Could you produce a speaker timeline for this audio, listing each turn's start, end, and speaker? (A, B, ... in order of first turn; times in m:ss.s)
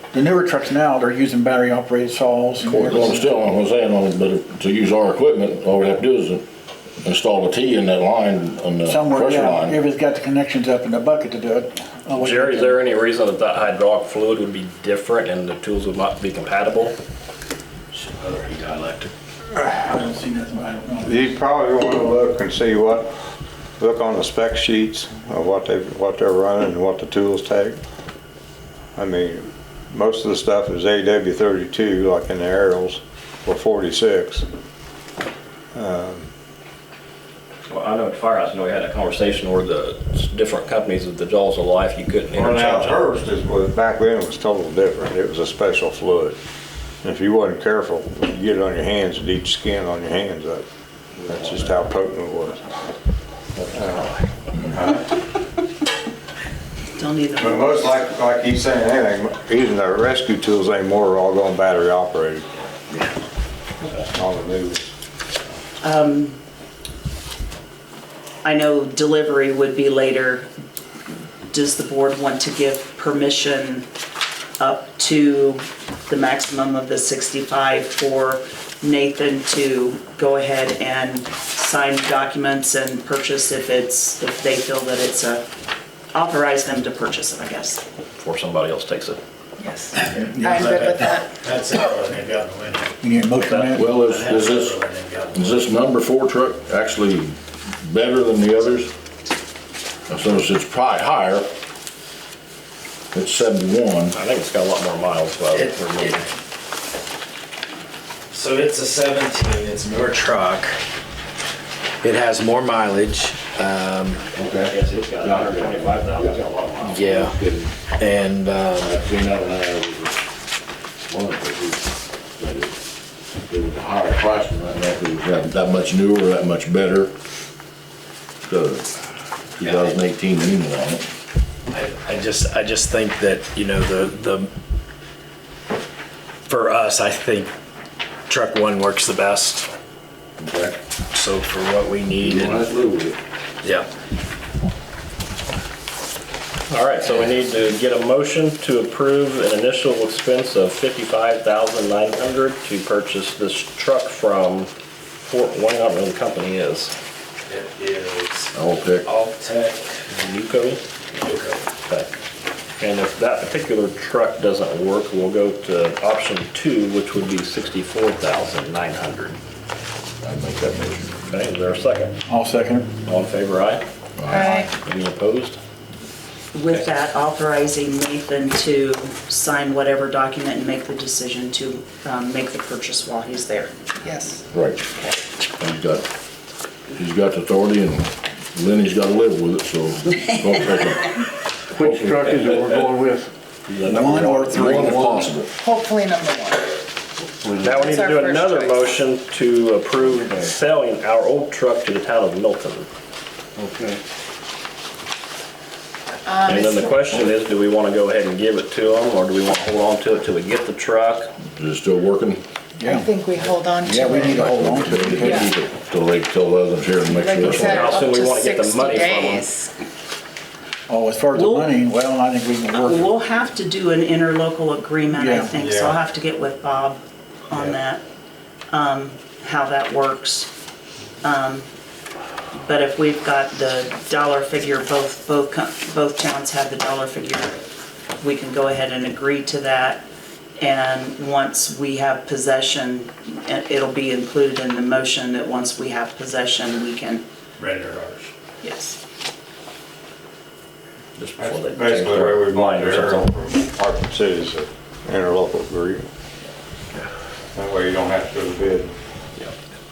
0:00.1-0:03.3 A
0:02.6-0:06.4 B
0:07.0-0:09.8 B
0:08.9-0:12.8 A
0:12.2-0:16.9 C
0:17.9-0:19.1 D
0:19.7-0:21.3 A
0:21.0-0:23.1 E
0:23.8-0:27.8 E
0:29.0-0:34.4 E
0:35.7-0:36.3 E
0:37.7-0:43.0 C
0:42.3-0:46.4 E
0:47.0-0:50.6 E
0:51.3-0:52.6 E
0:53.7-0:54.1 E
0:54.7-0:55.1 E
0:57.0-0:58.0 F
0:57.4-1:02.4 E
1:03.9-1:04.8 E
1:05.8-1:06.4 F
1:08.4-1:10.5 F
1:11.5-1:13.8 F
1:14.6-1:25.4 F
1:26.1-1:27.8 F
1:28.2-1:29.2 C
1:30.0-1:31.2 A
1:30.0-1:32.9 D
1:30.4-1:31.2 G
1:33.0-1:33.9 A
1:33.4-1:33.8 C
1:33.7-1:34.8 B
1:33.9-1:35.6 D
1:35.3-1:38.9 B
1:40.1-1:41.5 B
1:43.1-1:44.2 B
1:44.1-1:46.2 C
1:45.5-1:46.2 D
1:48.3-1:50.8 D
1:52.0-1:54.2 D
1:54.3-1:56.4 B
1:54.6-1:57.1 C
1:56.8-1:57.3 D
1:57.0-1:57.7 B
1:58.0-1:58.9 D
1:58.8-2:00.3 B
2:01.1-2:02.8 B
2:03.4-2:07.1 B
2:08.5-2:08.9 B
2:09.6-2:11.1 B
2:09.6-2:09.9 D
2:11.7-2:14.5 D
2:16.5-2:17.5 D
2:18.3-2:19.7 D
2:20.4-2:20.8 B
2:21.1-2:22.6 D
2:22.2-2:23.2 B
2:26.7-2:34.7 C
2:35.2-2:36.9 C
2:37.4-2:40.1 D
2:38.5-2:39.0 B
2:40.1-2:40.8 C
2:41.1-2:41.6 D
2:42.8-2:49.4 C
2:50.2-2:51.1 B
2:51.3-2:52.2 C
2:52.3-2:52.9 A
2:53.0-2:55.6 C
2:54.2-2:54.6 B
2:54.3-2:54.7 G
2:56.5-3:04.3 F
3:04.5-3:05.1 B
3:05.6-3:06.0 B
3:06.9-3:11.2 B
3:11.7-3:13.3 H
3:11.8-3:12.6 B
3:13.7-3:15.5 B
3:13.8-3:15.3 A
3:13.9-3:14.3 H
3:15.5-3:16.6 G
3:17.4-3:17.7 H
3:17.6-3:22.9 C
3:17.7-3:18.9 G
3:23.6-3:24.0 H
3:26.3-3:27.0 G
3:26.4-3:31.3 C
3:31.5-3:32.4 B
3:32.8-3:33.1 A
3:32.8-3:34.4 G
3:33.8-3:35.5 A
3:34.1-3:38.0 B
3:35.2-3:35.5 G
3:37.1-3:39.7 G
3:37.4-3:39.5 C
3:40.9-3:43.1 A
3:41.3-3:41.7 F
3:42.7-3:48.0 F
3:45.1-3:45.5 A
3:45.6-3:46.0 E
3:48.7-3:50.5 F
3:51.2-3:51.7 F
3:52.5-3:57.6 F
3:58.2-4:00.0 F
4:00.6-4:07.2 F
4:07.8-4:08.2 E
4:08.6-4:09.0 F
4:11.2-4:13.3 C
4:11.4-4:16.0 E
4:17.5-4:18.9 E